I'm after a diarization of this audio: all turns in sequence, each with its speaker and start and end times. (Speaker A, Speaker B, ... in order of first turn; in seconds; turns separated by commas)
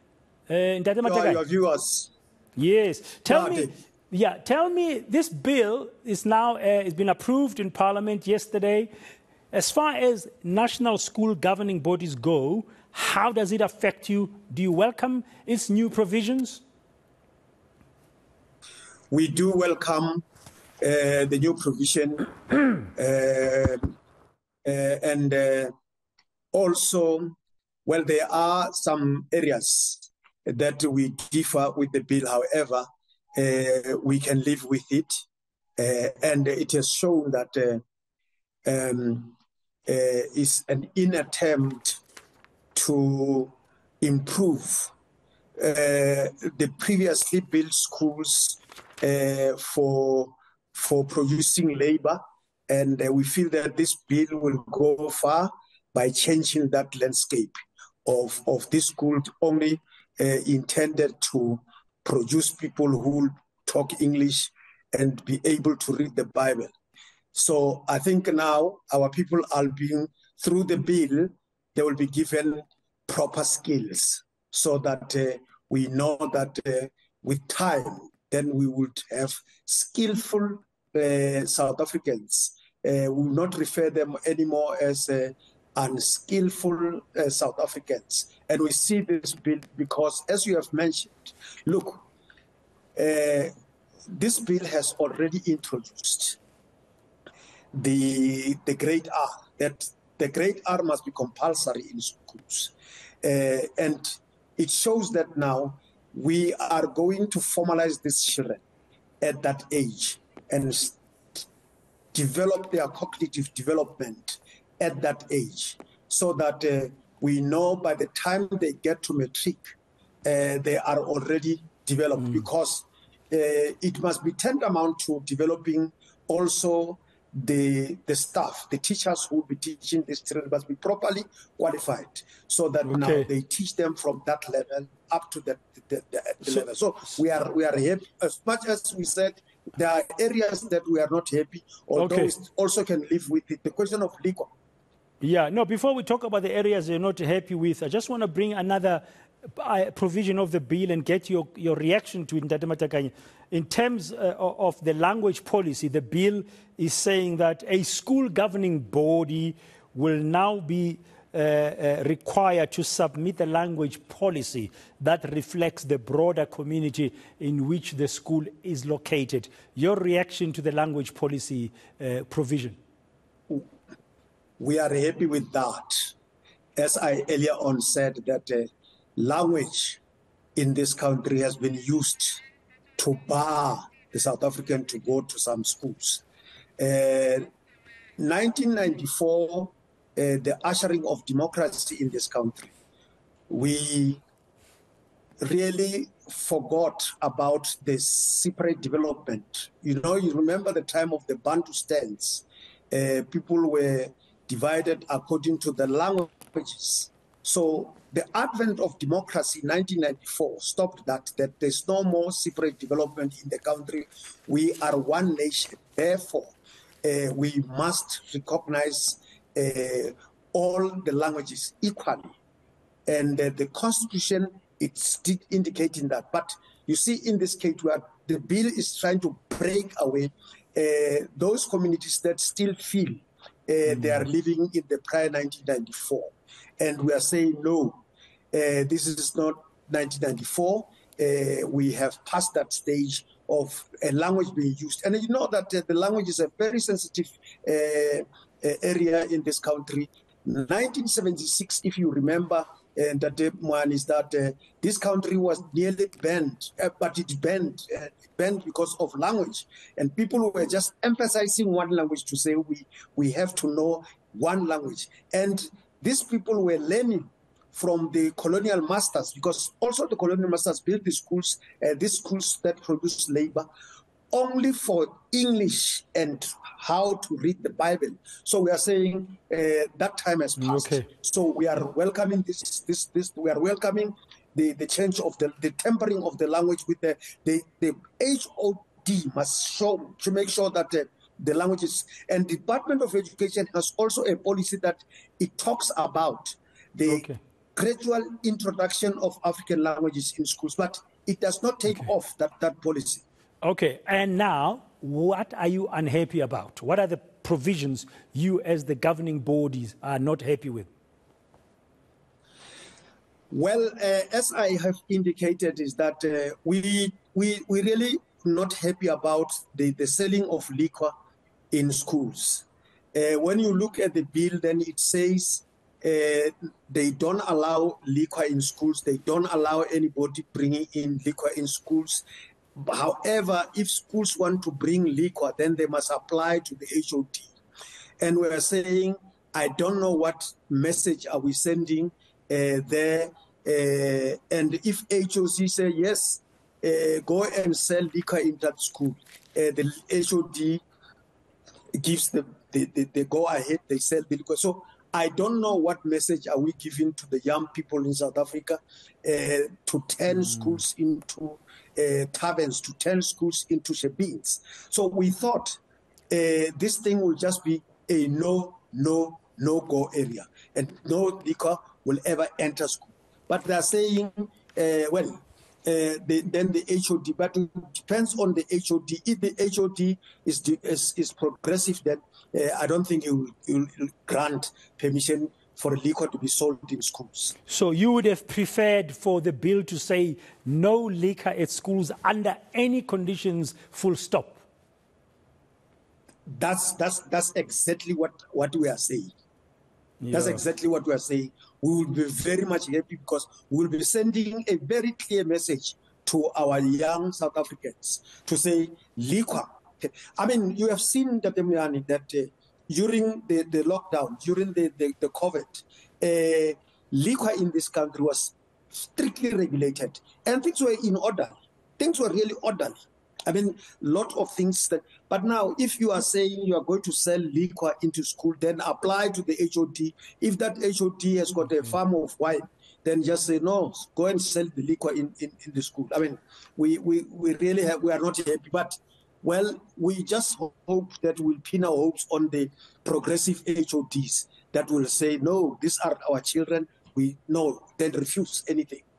Speaker A: 0.5-1.4, Speaker B: 1.0-2.1, Speaker A: 2.6-8.9, Speaker B: 3.3-3.7, Speaker A: 9.5-16.6, Speaker B: 19.1-20.2, Speaker B: 20.8-22.3, Speaker B: 22.9-23.9, Speaker B: 24.6-25.7, Speaker B: 26.5-27.3, Speaker B: 27.9-35.2, Speaker B: 35.8-37.8, Speaker B: 38.6-39.4, Speaker B: 39.9-42.0, Speaker B: 42.7-44.9, Speaker B: 45.6-66.7, Speaker B: 67.3-92.0, Speaker B: 93.0-93.5, Speaker B: 94.1-96.4, Speaker B: 97.7-108.6, Speaker B: 109.2-111.0, Speaker B: 112.1-119.6, Speaker B: 120.2-144.5, Speaker A: 132.8-133.3, Speaker A: 142.0-142.3, Speaker A: 145.2-149.0, Speaker A: 149.5-172.8, Speaker B: 174.6-176.1, Speaker B: 176.8-180.0, Speaker B: 180.6-182.4, Speaker B: 183.0-186.2, Speaker B: 186.8-187.5, Speaker B: 188.2-192.7, Speaker B: 193.5-194.2, Speaker B: 195.4-222.3, Speaker B: 223.1-273.7, Speaker A: 233.9-234.2, Speaker B: 274.3-303.2, Speaker A: 280.6-281.1, Speaker A: 297.1-297.4, Speaker A: 303.6-310.9, Speaker B: 313.5-321.1, Speaker B: 321.7-332.2, Speaker B: 332.8-337.5, Speaker B: 338.2-350.8, Speaker B: 351.9-365.8, Speaker B: 366.3-387.6, Speaker A: 387.7-394.6, Speaker B: 396.5-399.3, Speaker A: 400.2-400.6, Speaker B: 400.3-418.5, Speaker B: 419.1-422.9, Speaker B: 423.5-449.0